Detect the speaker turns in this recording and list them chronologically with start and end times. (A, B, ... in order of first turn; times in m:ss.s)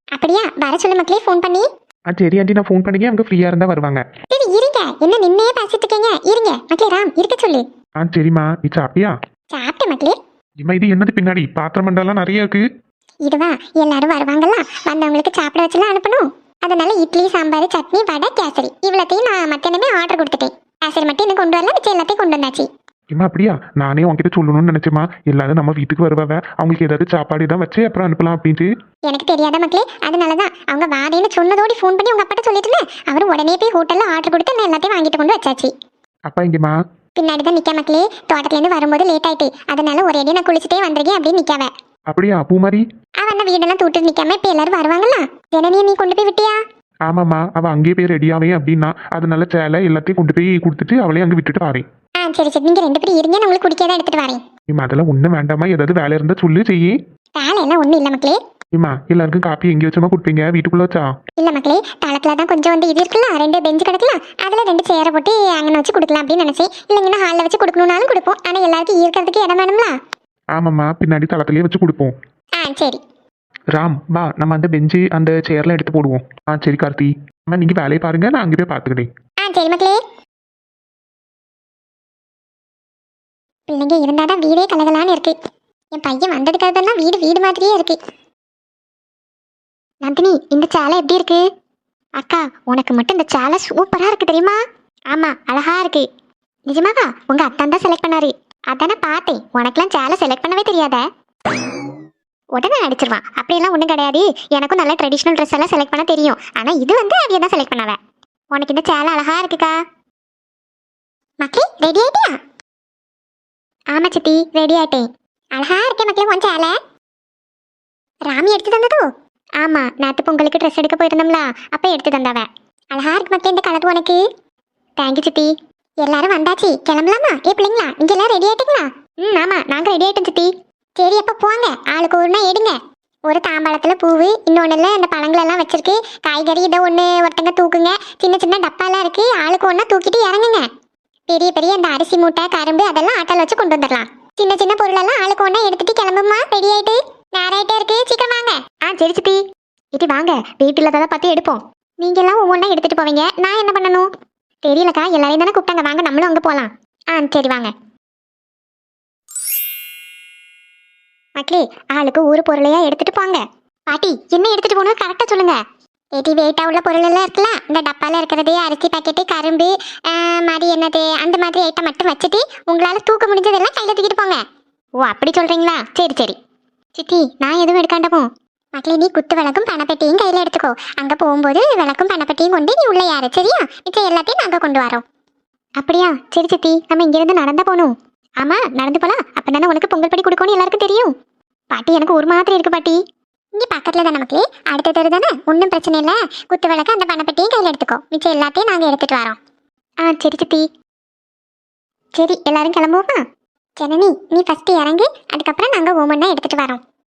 0:00.2-0:01.7 A
0:02.1-0:04.0 B
0:04.3-0:07.6 A
0:08.0-0:09.1 B
0:09.5-0:10.2 A
0:10.6-0:12.6 B
0:13.2-0:22.7 A
0:23.1-0:28.7 B
0:29.1-0:35.7 A
0:36.3-0:36.7 B
0:37.2-0:41.7 A
0:42.1-0:42.8 B
0:43.2-0:46.6 A
0:47.1-0:51.9 B
0:52.2-0:54.4 A
0:54.7-0:57.0 B
0:57.4-0:58.4 A
0:58.7-1:01.1 B
1:01.4-1:09.9 A
1:10.5-1:12.1 B
1:12.6-1:13.0 A
1:13.7-1:19.1 B
1:19.4-1:20.0 A
1:23.7-1:25.3 A
1:25.9-1:28.0 A
1:30.0-1:31.4 A
1:32.2-1:34.6 A
1:35.1-1:36.1 A
1:36.7-1:41.0 A
1:42.5-1:48.0 A
1:48.5-1:49.8 A
1:51.4-1:52.4 A
1:53.9-1:56.8 A
1:58.3-1:59.1 A
1:59.6-2:04.2 A
2:05.0-2:20.7 A
2:21.3-2:29.4 A
2:29.9-2:34.1 A
2:34.6-2:37.7 A
2:41.4-2:45.6 A
2:46.2-2:54.4 A
2:55.0-2:56.4 A
2:57.0-3:05.0 A
3:05.8-3:11.1 A
3:11.7-3:13.0 A
3:13.6-3:19.4 A
3:20.0-3:20.7 A
3:22.1-3:23.2 A
3:23.8-3:26.8 A